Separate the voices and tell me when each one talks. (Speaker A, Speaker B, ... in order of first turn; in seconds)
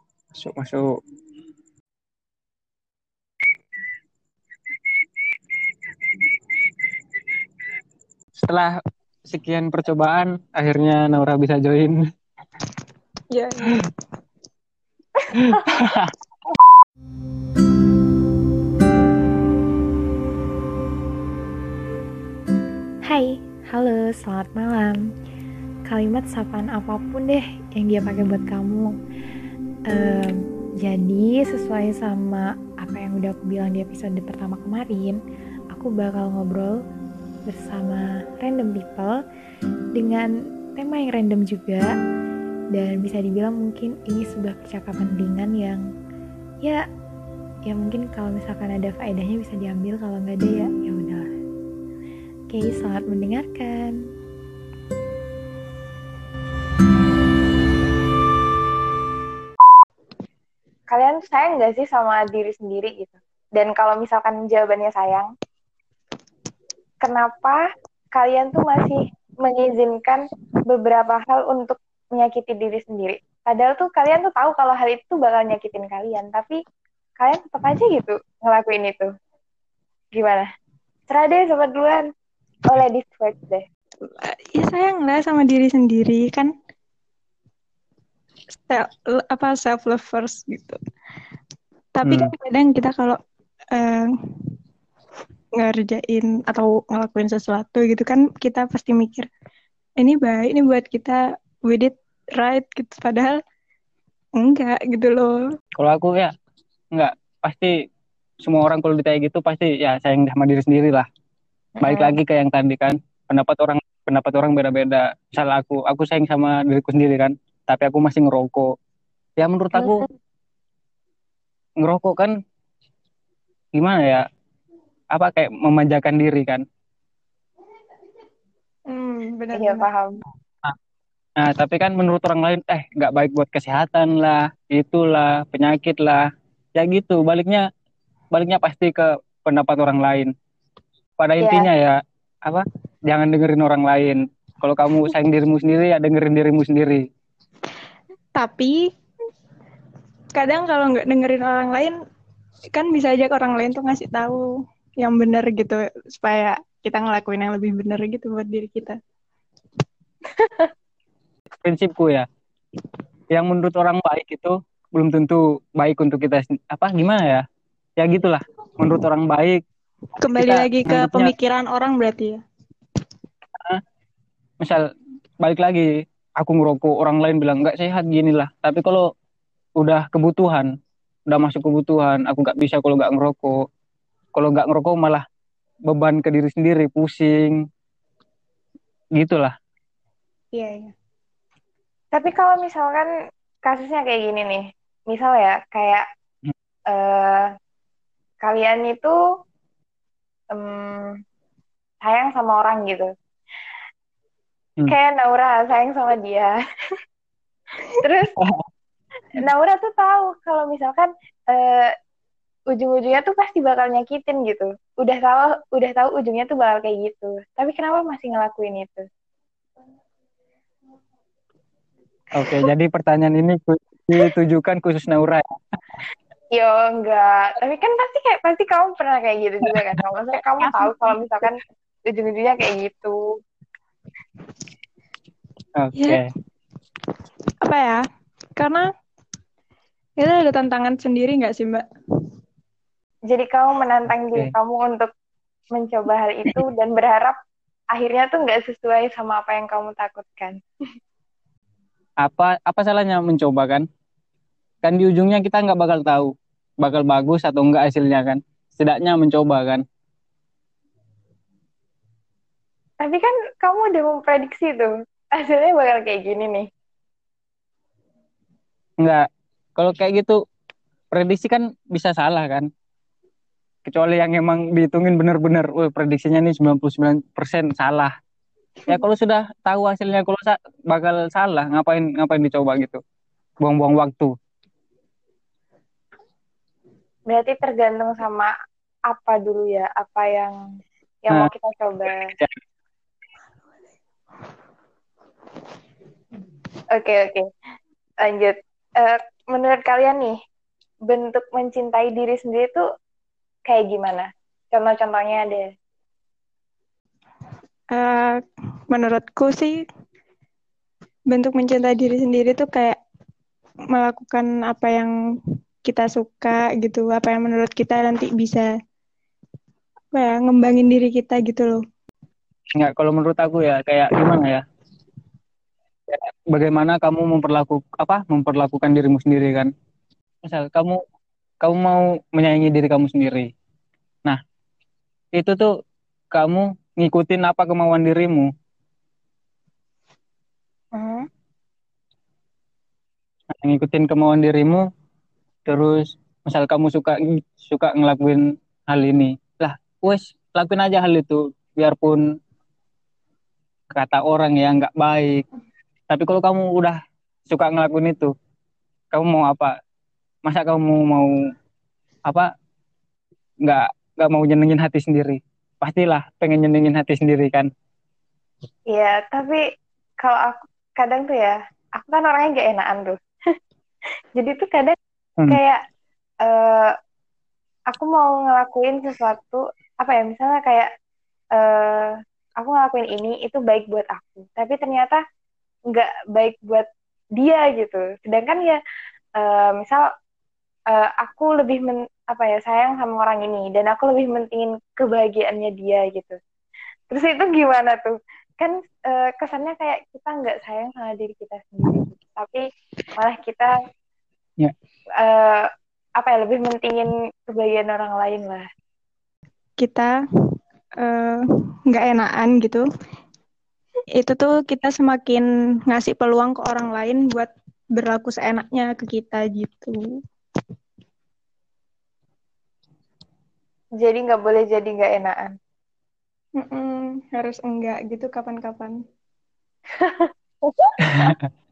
Speaker A: 0.3-0.8, 8.4-12.0, 15.3-16.1, 105.8-106.3, 106.9-107.7, 108.4-111.0, 111.8-118.7, 119.4-120.0, 121.8-122.3, 123.7-124.2, 125.1-126.6, 131.4-136.2, 136.8-137.6, 138.3-140.3, 141.2-147.0, 161.6-162.3, 163.3-167.4, 168.0-169.6, 170.4-171.3, 175.4-179.0, 179.8-180.7, 181.3-183.5, 184.3-185.2, 185.9-187.6, 189.2-189.5, 222.3-225.4, 229.7-230.0, 235.8-236.2, 252.2-253.8, 254.8-259.8, 269.8-270.4, 271.1-272.7, 273.9-278.1, 278.9-283.0, 283.6-284.3, 322.7-324.6, 326.1-329.7, 330.4-331.0, 331.6-333.5, 335.4-335.7, 336.3-338.5, 343.6-344.8, 345.6-352.2, 353.9-355.4, 356.1-358.3, 359.1-359.7, 360.4-361.3, 363.6-367.7, 431.0-431.5
Speaker B: 13.3-13.8, 84.2-86.5, 88.5-90.8, 92.0-93.2, 93.7-94.6, 95.5-99.2, 100.0-103.4, 104.4-105.3, 128.9-129.9, 148.3-148.9, 150.3-151.9, 152.7-154.4, 155.0-158.9, 170.2-172.4, 190.5-190.9, 230.6-231.2, 235.9-236.2, 237.6-238.0, 238.6-238.8, 240.2-241.8, 307.9-309.8, 311.3-313.0, 313.9-315.1, 315.8-318.7, 320.1-321.8, 409.8-412.8, 414.2-420.0, 426.6-428.9
Speaker C: 23.1-25.0, 25.9-28.9, 29.9-35.2, 35.7-36.8, 37.5-39.2, 39.9-41.9, 42.7-45.8, 47.7-51.3, 52.5-54.0
Speaker D: 60.9-65.3, 67.0-67.6, 68.1-76.6, 77.2-79.1, 80.1-80.5, 81.1-82.0, 82.7-83.6, 111.8-112.2, 129.5-130.2, 141.4-141.7, 160.4-160.7, 192.1-193.1, 193.7-196.0, 196.9-197.5, 198.4-199.1, 200.5-201.2, 202.0-203.1, 204.9-206.5, 208.0-208.3, 209.3-211.9, 212.7-219.0, 222.4-222.7, 226.5-233.2, 243.3-245.1, 245.7-247.3, 247.9-250.5, 263.0-266.6, 287.3-288.5, 289.1-290.5, 291.2-292.3, 296.9-297.4, 298.2-300.3, 301.1-302.8, 303.7-305.6, 340.9-341.2, 368.9-369.6, 370.2-373.2, 374.4-374.9, 375.5-375.8, 376.4-376.9, 377.9-380.9, 381.6-385.2, 385.9-386.9, 387.4-388.8, 389.4-390.1, 390.9-396.4, 397.1-402.6, 403.1-403.7, 405.2-405.7, 406.2-408.6, 424.0-425.5, 430.0-430.9